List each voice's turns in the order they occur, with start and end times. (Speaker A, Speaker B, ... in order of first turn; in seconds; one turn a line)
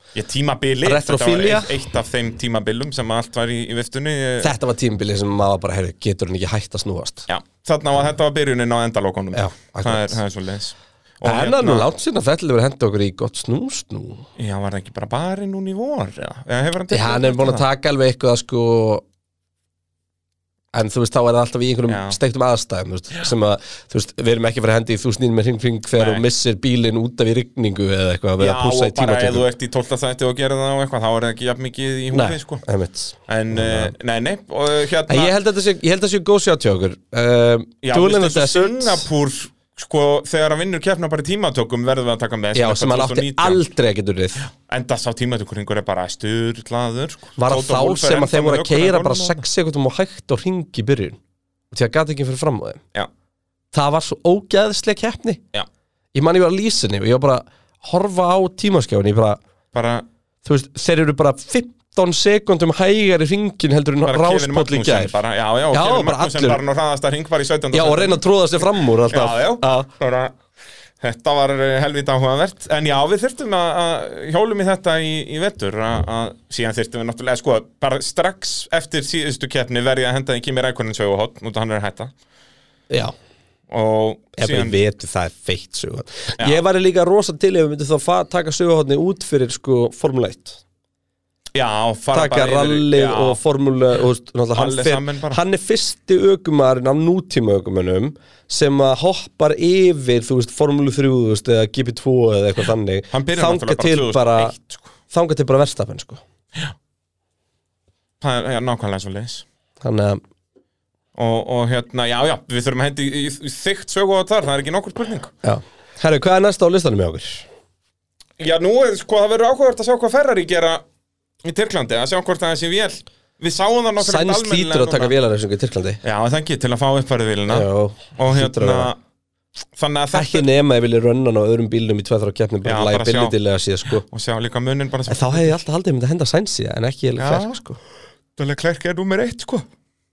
Speaker A: 0.1-4.5
Speaker B: 0.8-1.8
Speaker B: 4.4-7.3
Speaker A: 7.3-11.9
Speaker B: 9.3-10.2
Speaker B: 11.2-14.3
Speaker A: 14.4-17.6
Speaker B: 16.9-19.0
Speaker B: 20.7-29.5
Speaker A: 21.9-22.2
Speaker A: 25.9-26.2
Speaker A: 28.4-32.6
Speaker B: 32.1-33.9
Speaker A: 33.3-35.3
Speaker B: 35.1-39.0
Speaker A: 37.8-43.6
Speaker B: 42.5-44.4
Speaker A: 44.4-49.4
Speaker B: 47.4-51.2
Speaker B: 51.7-52.8
Speaker B: 53.7-55.4
Speaker B: 56.1-59.4
Speaker A: 59.7-60.0
Speaker B: 60.4-65.2
Speaker A: 64.0-68.2
Speaker B: 65.7-66.6
Speaker B: 67.7-69.9
Speaker A: 69.1-70.3
Speaker A: 71.0-82.1
Speaker A: 83.7-84.8
Speaker B: 84.4-90.6
Speaker A: 91.5-93.4
Speaker B: 92.1-104.5
Speaker A: 94.5-95.4
Speaker A: 103.1-104.8
Speaker B: 105.1-106.2
Speaker A: 108.2-109.4
Speaker B: 109.8-110.2
Speaker A: 111.2-115.3
Speaker B: 115.4-117.5
Speaker A: 118.4-120.8
Speaker A: 121.4-125.1
Speaker B: 124.0-126.0
Speaker A: 126.0-129.0
Speaker B: 127.5-128.9
Speaker A: 129.7-130.5
Speaker B: 130.1-134.0
Speaker A: 132.6-133.3
Speaker A: 134.1-135.6
Speaker B: 135.1-137.8
Speaker A: 137.2-137.6
Speaker A: 138.4-139.6